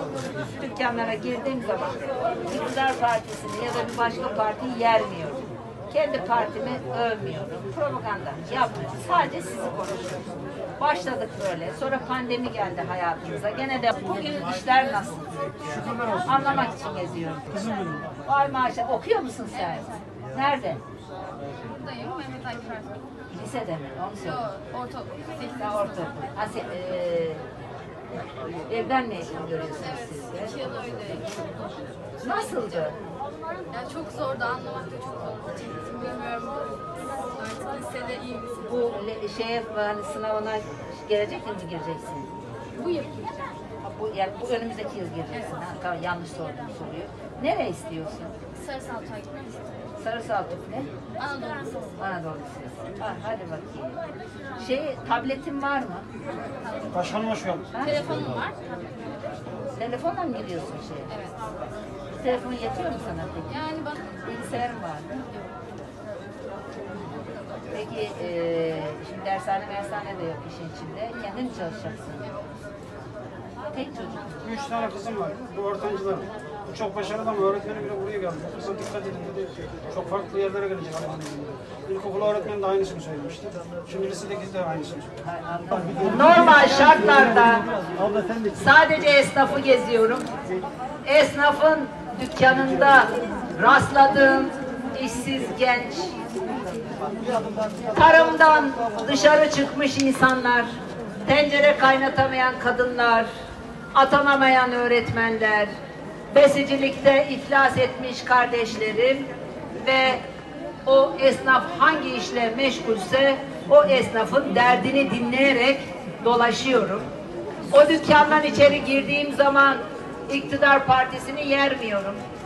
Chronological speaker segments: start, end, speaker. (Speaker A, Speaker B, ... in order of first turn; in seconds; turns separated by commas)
Speaker A: 0.4-10.1, Speaker A: 10.8-15.2, Speaker A: 16.2-17.6, Speaker A: 18.2-20.8, Speaker B: 21.7-22.9, Speaker A: 23.3-24.5, Speaker B: 24.6-25.1, Speaker A: 25.4-27.4, Speaker A: 28.6-31.3, Speaker A: 32.2-33.0, Speaker B: 33.7-36.7, Speaker B: 37.3-38.5, Speaker A: 38.5-42.3, Speaker B: 42.8-43.4, Speaker A: 43.8-48.3, Speaker B: 48.6-49.5, Speaker A: 50.0-50.9, Speaker B: 51.2-51.7, Speaker A: 52.0-54.0, Speaker A: 54.6-56.1, Speaker C: 56.9-57.7, Speaker A: 57.7-58.2, Speaker B: 58.0-58.6, Speaker A: 59.7-61.1, Speaker A: 62.1-63.7, Speaker A: 64.2-65.2, Speaker A: 67.7-72.3, Speaker A: 73.7-74.5, Speaker C: 74.5-85.1, Speaker A: 86.0-87.6, Speaker A: 88.5-90.3, Speaker A: 91.0-96.1, Speaker A: 97.9-100.7, Speaker A: 101.2-103.3, Speaker A: 103.9-105.7, Speaker A: 106.3-109.3, Speaker A: 109.8-110.2, Speaker A: 110.8-117.1, Speaker A: 117.7-122.2